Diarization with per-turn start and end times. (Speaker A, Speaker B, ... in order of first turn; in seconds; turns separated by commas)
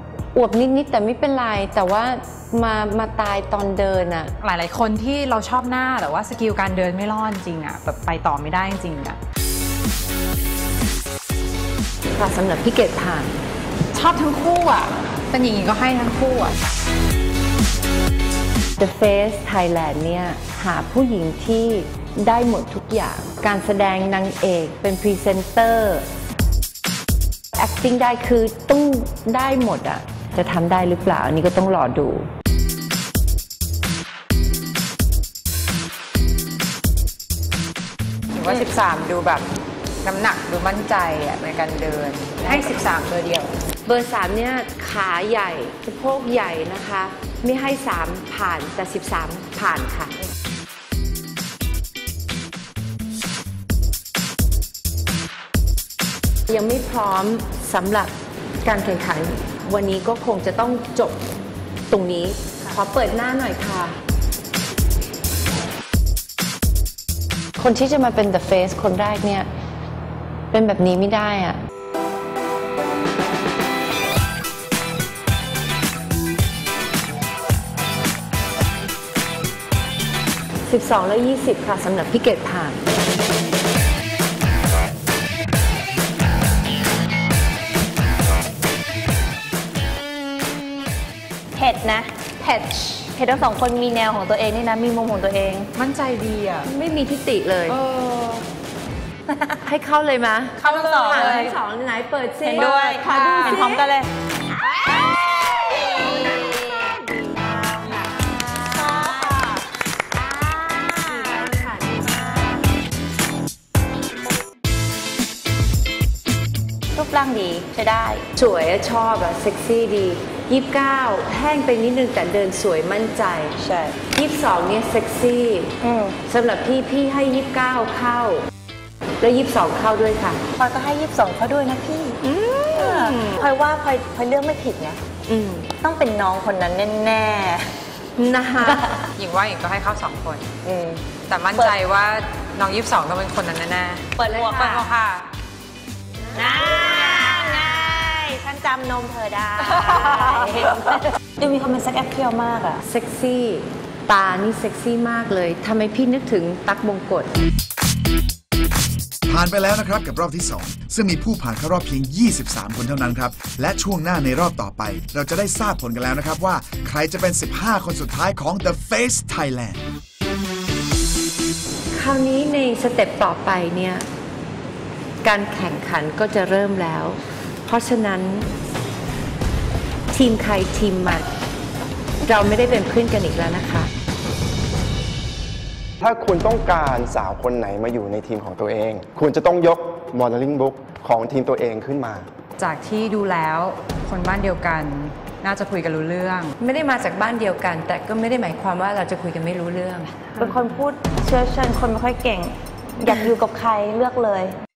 Speaker A: 0.3-4.3, Speaker B: 4.4-9.2, Speaker A: 12.1-13.3, Speaker B: 13.9-16.5, Speaker A: 18.8-26.1, Speaker A: 27.5-32.3, Speaker B: 38.3-39.5, Speaker B: 40.0-43.5, Speaker A: 43.9-50.1, Speaker A: 56.5-58.1, Speaker A: 58.6-61.3, Speaker A: 61.9-64.0, Speaker A: 67.6-69.5, Speaker A: 70.5-71.6, Speaker A: 80.7-82.8, Speaker C: 91.6-92.2, Speaker B: 92.4-93.0, Speaker C: 93.0-95.7, Speaker B: 95.8-96.7, Speaker A: 96.7-97.8, Speaker B: 97.7-98.4, Speaker A: 99.7-103.8, Speaker C: 100.6-101.5, Speaker B: 100.7-101.5, Speaker C: 102.5-104.1, Speaker B: 103.0-103.8, Speaker C: 106.2-106.5, Speaker C: 107.5-107.9, Speaker C: 108.8-109.6, Speaker C: 110.7-111.5, Speaker A: 111.4-111.7, Speaker C: 116.9-118.2, Speaker A: 118.3-123.6, Speaker C: 123.6-124.0, Speaker A: 124.1-125.7, Speaker C: 125.8-126.1, Speaker A: 126.3-128.4, Speaker A: 129.2-130.4, Speaker C: 130.6-135.0, Speaker A: 132.8-133.4, Speaker A: 135.3-135.7, Speaker C: 135.8-137.7, Speaker A: 138.2-139.0, Speaker B: 139.2-140.5, Speaker C: 140.7-141.0, Speaker B: 141.3-145.3, Speaker C: 144.2-144.9, Speaker A: 144.3-144.7, Speaker C: 146.3-152.8, Speaker A: 152.8-157.3, Speaker D: 159.3-169.8, Speaker A: 171.9-174.1, Speaker A: 175.2-178.5, Speaker A: 180.1-181.3, Speaker A: 182.2-183.9, Speaker E: 186.0-192.3, Speaker B: 192.6-196.5, Speaker A: 196.6-200.2, Speaker C: 200.4-204.6